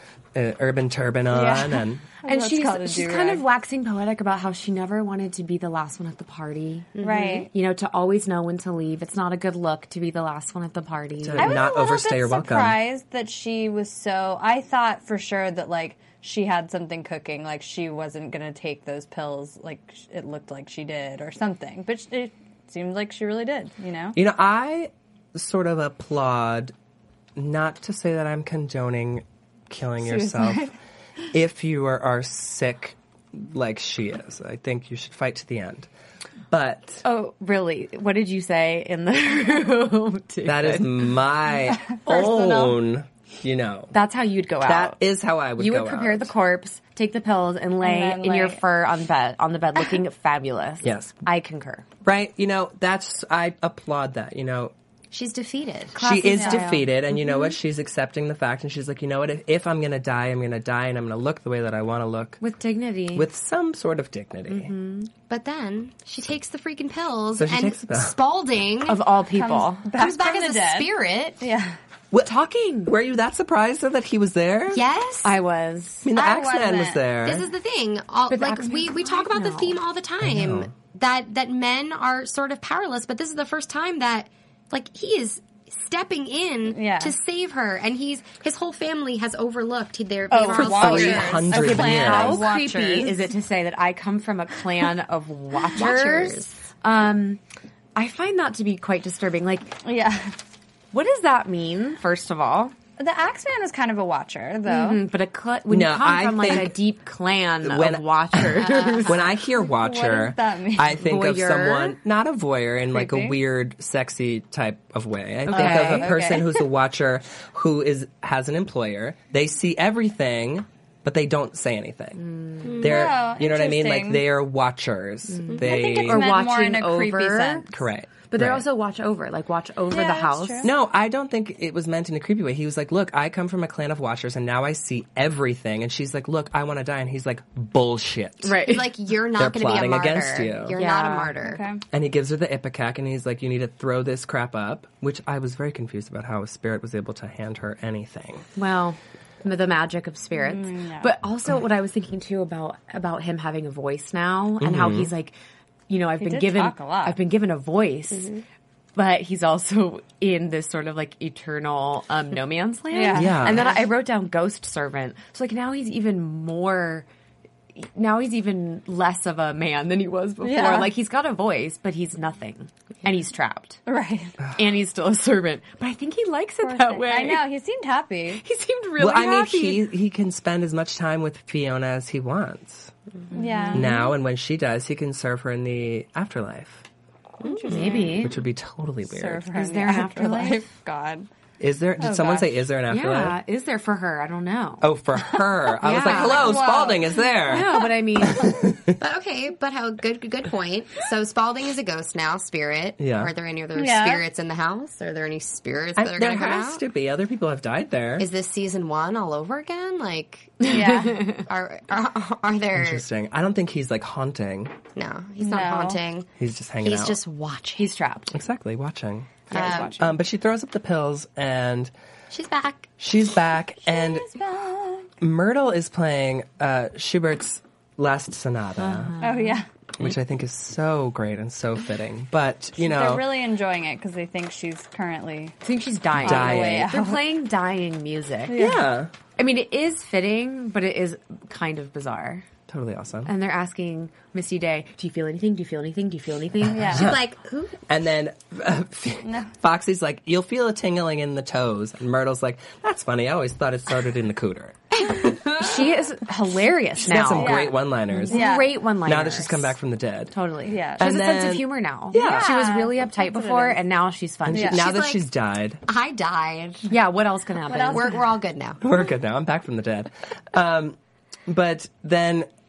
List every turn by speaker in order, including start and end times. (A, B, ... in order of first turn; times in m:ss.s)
0:00.3-0:02.0 A
0:01.3-0:03.4 B
0:02.2-0:06.9 C
0:07.0-0:07.4 D
0:07.0-0:07.5 B
0:07.5-0:11.6 C
0:11.2-0:12.8 A
0:11.4-0:24.2 B
0:24.1-0:26.7 A
0:27.4-0:30.7 A
0:30.0-0:30.7 B
0:31.3-0:35.9 A
0:36.5-0:37.0 A
0:37.0-0:41.1 C
0:40.4-0:43.9 A
0:41.8-0:42.7 B
0:43.9-0:45.0 C
0:44.6-0:46.3 A
0:45.6-0:51.8 C
0:47.8-0:48.6 B
0:50.8-0:51.1 A
0:52.0-0:54.7 A
0:55.1-0:56.0 D
0:55.9-0:57.5 C
0:56.0-1:02.4 A
0:56.3-0:56.8 B
1:02.4-1:03.3 C
1:03.1-1:04.7 A
1:04.5-1:05.1 C
1:05.3-1:09.0 D
1:07.4-1:08.1 A
1:08.9-1:09.9 C
1:09.3-1:11.8 B
1:10.0-1:11.4 D
1:12.2-1:12.9 C
1:12.8-1:14.8 A
1:14.7-1:15.4 D
1:15.2-1:16.1 C
1:16.0-1:17.5 A
1:16.1-1:17.0 B
1:17.2-1:31.5 D
1:18.3-1:19.8 C
1:20.2-1:20.7 A
1:26.7-1:27.2 B
1:30.3-1:33.3 B
1:30.4-1:37.4 C
1:30.6-1:32.5 A
1:35.7-1:36.6 D
1:37.9-1:39.8 C
1:39.8-1:40.4 B
1:40.9-1:42.7 C
1:43.0-1:45.0 B
1:44.6-1:49.2 C
1:45.7-1:46.8 A
1:47.6-2:06.3 A
1:48.7-1:49.0 D
1:49.6-1:51.0 B
1:50.9-1:52.0 C
1:52.9-1:53.4 B
1:55.5-1:56.3 C
1:55.5-1:56.4 B
2:02.2-2:02.9 C
2:02.6-2:03.0 D
2:02.8-2:04.2 B
2:05.3-2:07.7 C
2:05.6-2:07.7 B
2:07.7-2:08.6 A
2:08.3-2:10.7 C
2:09.9-2:10.7 B
2:10.6-2:18.6 A
2:18.4-2:18.9 C
2:18.6-2:21.6 D
2:19.4-2:20.8 A
2:20.7-2:21.4 C
2:21.4-2:21.8 B
2:21.9-2:28.4 A
2:28.6-2:35.3 C
2:30.4-2:31.1 B
2:34.6-2:35.1 A
2:35.9-2:38.3 C
2:36.2-2:37.2 B
2:38.1-2:38.4 D
2:38.9-2:47.0 C
2:42.9-2:43.7 B
2:43.1-2:43.7 A
2:47.8-2:53.8 C
2:50.4-2:50.9 B
2:53.9-2:54.4 B
2:54.5-2:57.5 C
2:56.6-2:58.4 B
2:58.4-2:59.9 C
2:59.0-3:02.9 A
3:03.3-3:04.0 C
3:03.3-3:04.0 B
3:03.7-3:06.8 A
3:07.4-3:08.3 B
3:07.4-3:08.0 D
3:07.7-3:08.4 C
3:08.2-3:09.4 A
3:09.1-3:11.3 B
3:09.5-3:10.7 C
3:11.6-3:13.4 A
3:12.0-3:12.6 B
3:12.9-3:14.9 C
3:14.8-3:19.0 A
3:15.8-3:16.6 C
3:15.9-3:17.8 B
3:17.4-3:18.6 C
3:19.0-3:26.8 D
3:23.0-3:23.3 A
3:23.8-3:24.2 B
3:26.0-3:28.3 A
3:28.2-3:33.0 D
3:30.6-3:31.4 C
3:30.6-3:31.2 B
3:32.7-3:34.7 A
3:35.0-3:36.3 D
3:35.4-3:36.0 B
3:36.4-3:37.2 A
3:36.8-3:37.9 D
3:37.8-3:38.4 C
3:38.3-3:41.9 A
3:39.5-3:40.0 D
3:39.5-3:40.0 B
3:42.3-3:42.9 D
3:43.0-3:44.3 A
3:43.8-3:45.1 B
3:45.2-3:49.1 A
3:48.8-3:49.6 C
3:49.2-3:49.7 B
3:50.0-3:53.2 A
3:52.8-3:55.6 B
3:55.6-3:58.7 C
3:56.1-3:56.9 A
3:56.2-3:57.2 B
3:58.5-3:58.8 B
3:58.5-3:59.1 A
3:59.4-4:02.4 C
4:02.7-4:03.3 A
4:03.2-4:07.1 C
4:06.6-4:07.3 A
4:06.7-4:07.1 B
4:06.9-4:07.8 D
4:07.9-4:15.0 A
4:09.2-4:09.5 B
4:15.2-4:17.5 C
4:17.0-4:20.3 A
4:17.3-4:18.7 B
4:18.1-4:19.7 C
4:20.3-4:24.8 C
4:20.6-4:21.1 B
4:21.0-4:22.5 A
4:22.1-4:23.8 B
4:24.4-4:25.8 A
4:24.5-4:24.8 B
4:24.7-4:25.2 D
4:25.8-4:26.9 D
4:26.9-4:28.2 C
4:27.7-4:28.1 B
4:27.9-4:28.9 D
4:28.8-4:32.5 A